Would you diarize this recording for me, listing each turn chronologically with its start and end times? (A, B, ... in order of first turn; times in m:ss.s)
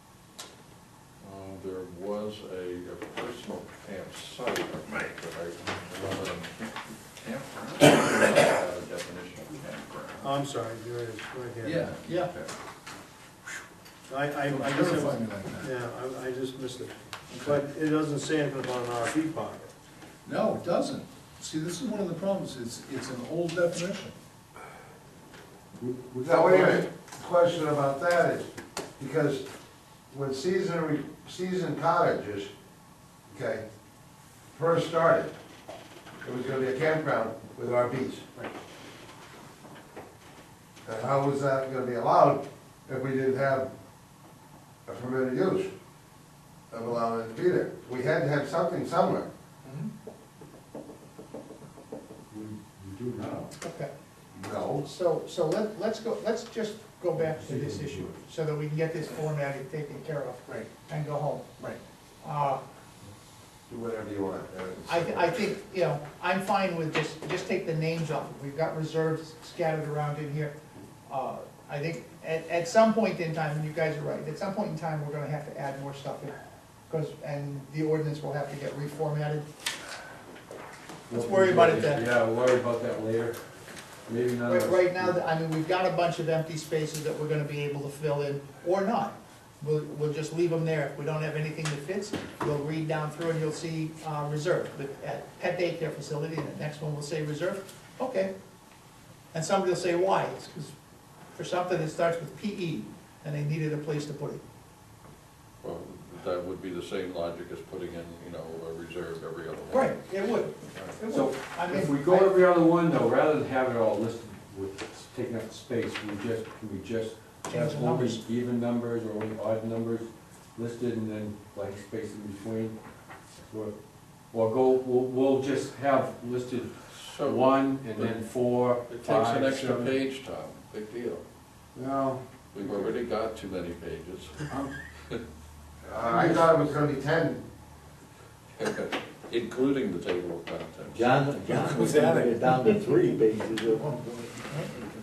0:01.2-0:10.2 A
0:10.2-0:12.0 B
0:11.6-0:12.5 A
0:12.0-0:12.3 C
0:14.1-0:19.7 B
0:14.5-0:15.7 D
0:20.2-0:24.2 D
0:25.8-0:26.9 D
0:26.2-0:29.4 E
0:30.1-0:32.5 E
0:33.3-0:33.6 E
0:34.5-0:35.3 E
0:36.2-0:38.4 E
0:40.8-0:43.7 E
0:44.9-0:45.7 E
0:46.7-0:49.3 E
0:52.3-0:53.3 F
0:53.6-0:53.9 C
0:54.3-0:54.8 E
0:54.8-1:01.5 C
1:02.2-1:02.6 C
1:03.7-1:05.3 E
1:04.8-1:16.4 C
1:16.9-1:19.5 C
1:21.1-1:22.1 C
1:21.1-1:23.4 F
1:24.1-1:25.2 F
1:24.4-1:38.3 C
1:39.3-1:40.7 C
1:41.4-1:44.4 C
1:45.6-1:50.0 A
1:49.7-1:52.4 C
1:51.1-2:02.8 F
1:57.4-1:58.3 C
2:03.4-2:03.8 F
2:04.3-2:09.9 F
2:06.9-2:08.2 A
2:08.9-2:11.2 A
2:11.8-2:12.2 E
2:12.5-2:14.4 A
2:15.9-2:17.4 E
2:15.9-2:16.5 D
2:18.6-2:21.5 A
2:21.2-2:23.8 G
2:21.4-2:23.3 D